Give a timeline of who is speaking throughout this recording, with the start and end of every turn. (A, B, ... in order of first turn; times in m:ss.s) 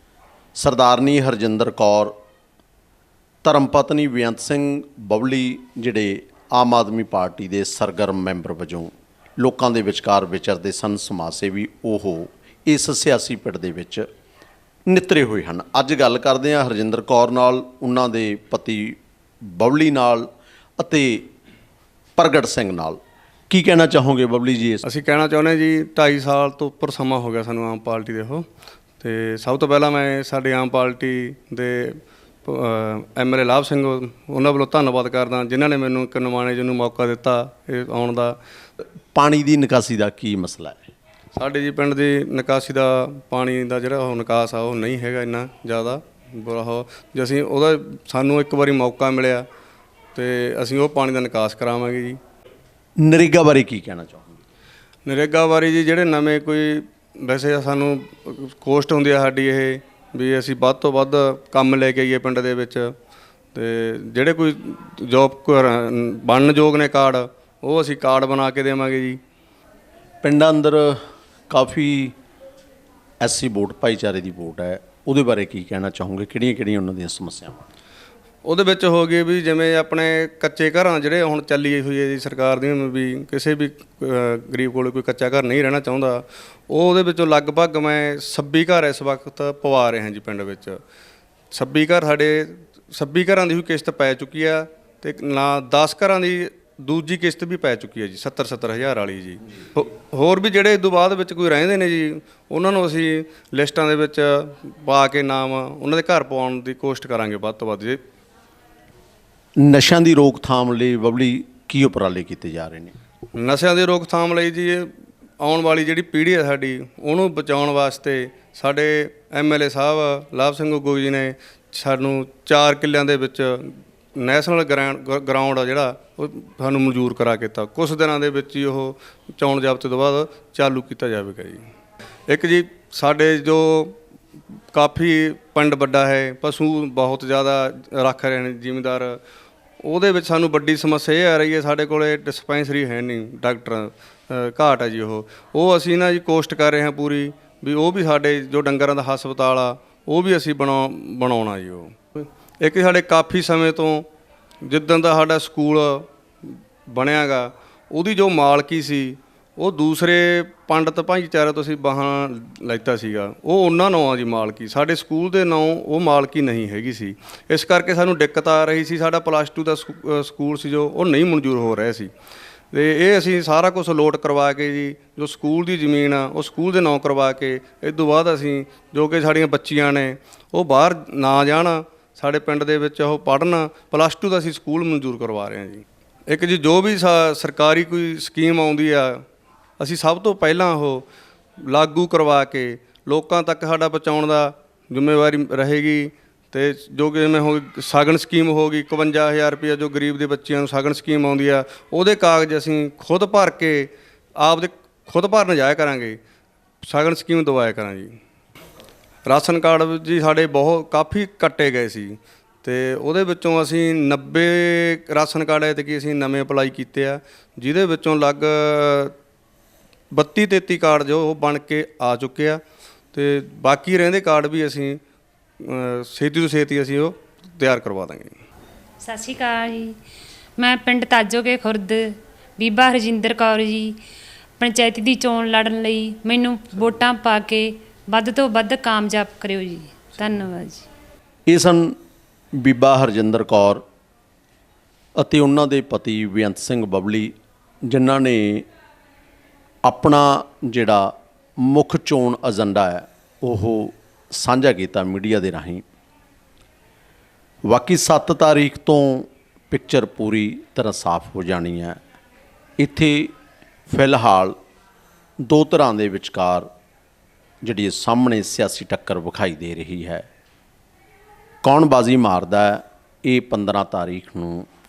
0:00.6-0:02.1 A
0:03.4-0:14.1 A
0:14.9-0:19.0 A
0:19.6-0:20.3 A
0:20.8-0:21.3 A
0:22.2-0:23.0 A
0:23.5-0:24.8 A
0:24.8-0:28.5 B
0:29.0-0:38.4 B
0:39.2-0:40.8 A
0:41.4-0:49.4 B
0:50.2-0:52.2 B
0:53.0-0:54.3 A
0:55.0-1:02.9 B
1:03.5-1:09.2 B
1:10.2-1:12.1 A
1:13.2-1:17.7 A
1:18.4-1:30.8 B
1:31.5-1:48.0 B
1:49.6-1:52.9 A
1:53.3-1:54.9 B
1:55.4-2:11.6 B
2:12.3-2:14.0 B
2:14.7-2:19.2 B
2:19.8-2:34.1 B
2:34.6-2:52.1 B
2:52.7-3:09.2 B
3:09.8-3:11.1 B
3:11.6-3:26.2 B
3:26.8-3:28.2 B
3:29.3-3:39.1 B
3:40.1-3:42.6 B
3:43.1-3:45.0 B
3:45.6-3:48.4 B
3:49.0-3:50.0 C
3:50.6-3:53.9 C
3:54.6-4:00.9 C
4:01.5-4:02.0 A
4:02.6-4:03.8 A
4:05.2-4:07.3 A
4:07.9-4:08.6 A
4:09.8-4:15.8 A
4:17.7-4:22.0 A
4:22.8-4:23.3 A
4:23.9-4:24.6 A
4:25.5-4:26.7 A
4:27.6-4:30.2 A
4:31.6-4:34.7 A